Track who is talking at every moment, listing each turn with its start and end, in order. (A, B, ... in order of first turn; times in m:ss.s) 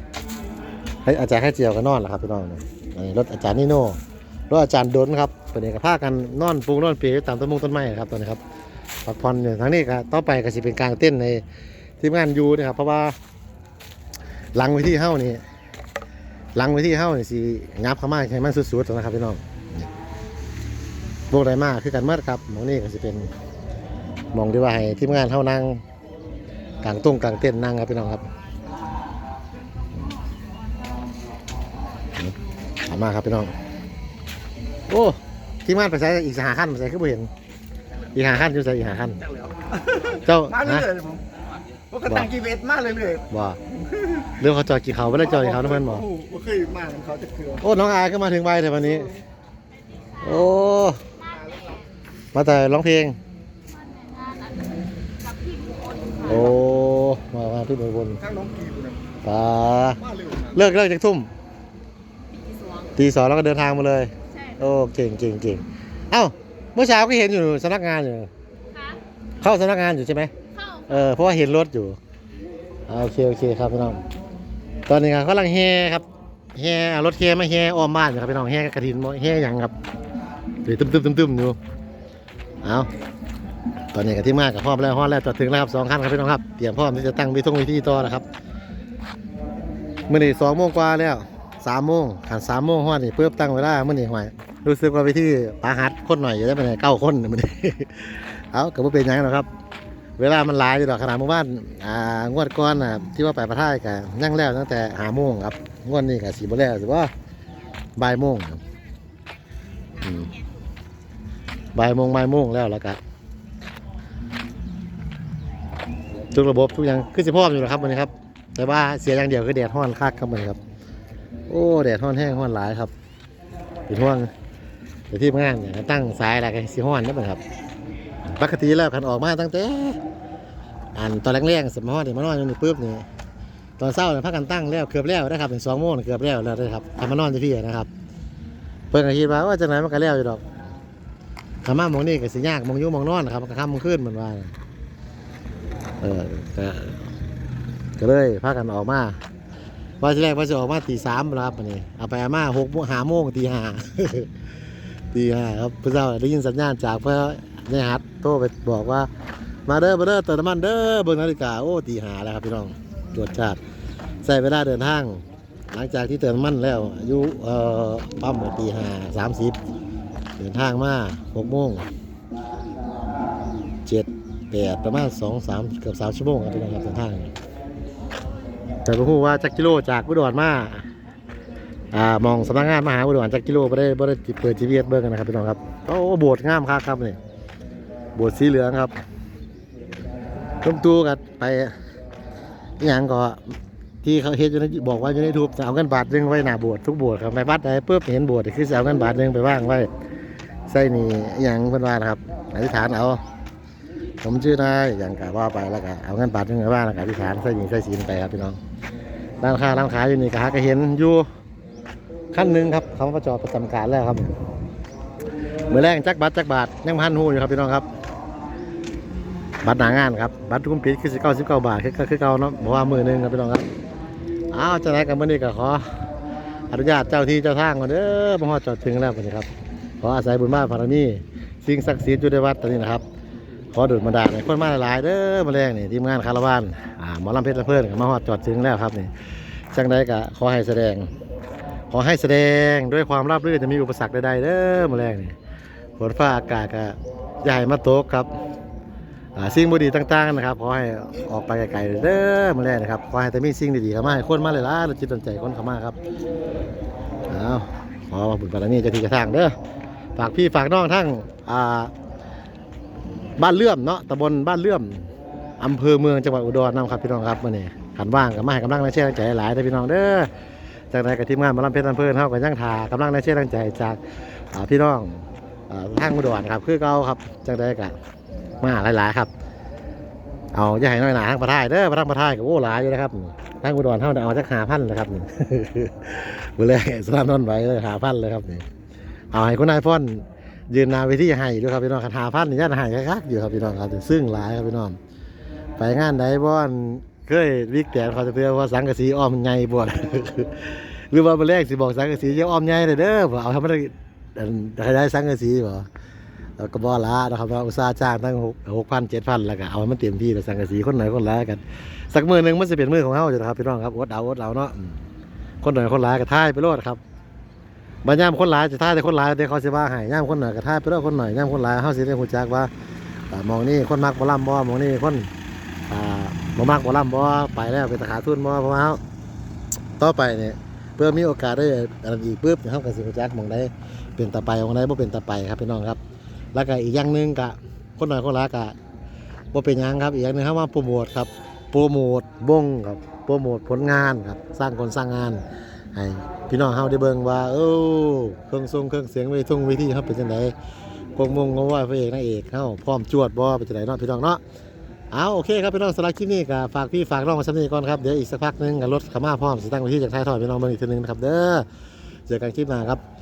0:01.0-0:08.4 A
0:09.0-0:11.4 A
0:12.0-0:13.1 A
0:14.6-0:15.4 A
0:16.6-0:19.9 A
0:21.3-0:23.3 A
0:24.3-0:25.8 A
0:26.8-0:28.3 A
0:32.9-0:33.5 A
0:34.9-0:37.3 A
0:38.1-0:39.2 A
0:40.1-0:41.0 A
0:40.8-0:41.2 B
0:41.9-0:43.2 B
0:42.0-0:42.4 A
0:43.3-0:43.6 A
0:44.4-0:46.2 A
0:46.1-0:47.6 B
0:47.6-0:49.1 A
0:50.2-0:51.0 A
0:51.4-0:51.8 C
0:52.3-0:53.2 A
0:54.0-0:54.6 C
0:55.2-0:56.3 C
0:56.2-0:58.3 A
0:58.4-0:58.9 B
0:59.2-1:01.3 A
1:02.3-1:02.9 C
1:03.0-1:08.3 A
1:09.4-1:10.3 A
1:10.6-1:11.0 C
1:10.9-1:12.0 A
1:12.9-1:14.0 A
1:14.9-1:19.7 A
1:20.6-1:21.6 A
1:22.6-1:22.9 A
1:23.9-1:28.2 A
1:30.1-1:39.5 A
1:40.2-1:47.1 A
1:48.0-1:48.6 A
1:50.0-1:50.3 A
1:51.8-1:53.0 A
1:56.3-2:00.6 A
2:01.5-2:02.9 A
2:03.9-2:04.3 A
2:05.1-2:07.4 A
2:08.3-2:10.0 A
2:11.0-2:13.1 A
2:13.8-2:17.9 A
2:18.9-2:20.4 A
2:21.6-2:24.5 A
2:26.0-2:27.1 A
2:28.0-2:29.2 A
2:30.0-2:34.3 A
2:35.1-2:39.1 A
2:39.7-2:43.6 A
2:44.2-2:49.6 A
2:50.4-2:51.8 A
2:53.9-2:57.3 A
2:58.8-3:00.8 A
3:01.9-3:07.2 A
3:08.2-3:09.0 A
3:10.6-3:11.7 A
3:12.8-3:19.9 A
3:20.7-3:23.2 A
3:24.2-3:28.6 A
3:29.4-3:31.3 A
3:32.3-3:34.3 A
3:35.7-3:37.9 A
3:39.6-3:43.7 A
3:44.5-3:45.9 A
3:46.7-3:49.5 A
3:50.0-3:53.0 A
3:53.7-3:59.1 A
3:59.7-4:01.1 A
4:01.9-4:05.4 A
4:06.0-4:08.3 A
4:09.4-4:16.0 A
4:17.3-4:19.6 A
4:20.2-4:21.9 A
4:23.4-4:30.3 A
4:30.9-4:34.0 A
4:34.5-4:38.0 A
4:38.6-4:39.3 A
4:40.5-4:48.7 A
4:49.3-4:55.0 A
4:55.8-5:05.9 A
5:06.6-5:15.0 A
5:15.6-5:17.0 A
5:18.0-5:22.7 A
5:23.3-5:25.3 A
5:25.9-5:29.0 A
5:30.0-5:36.0 A
5:36.6-5:38.8 A
5:39.5-5:45.4 A
5:45.9-5:50.5 A
5:51.2-5:54.4 A
5:55.1-6:01.7 A
6:02.3-6:03.0 A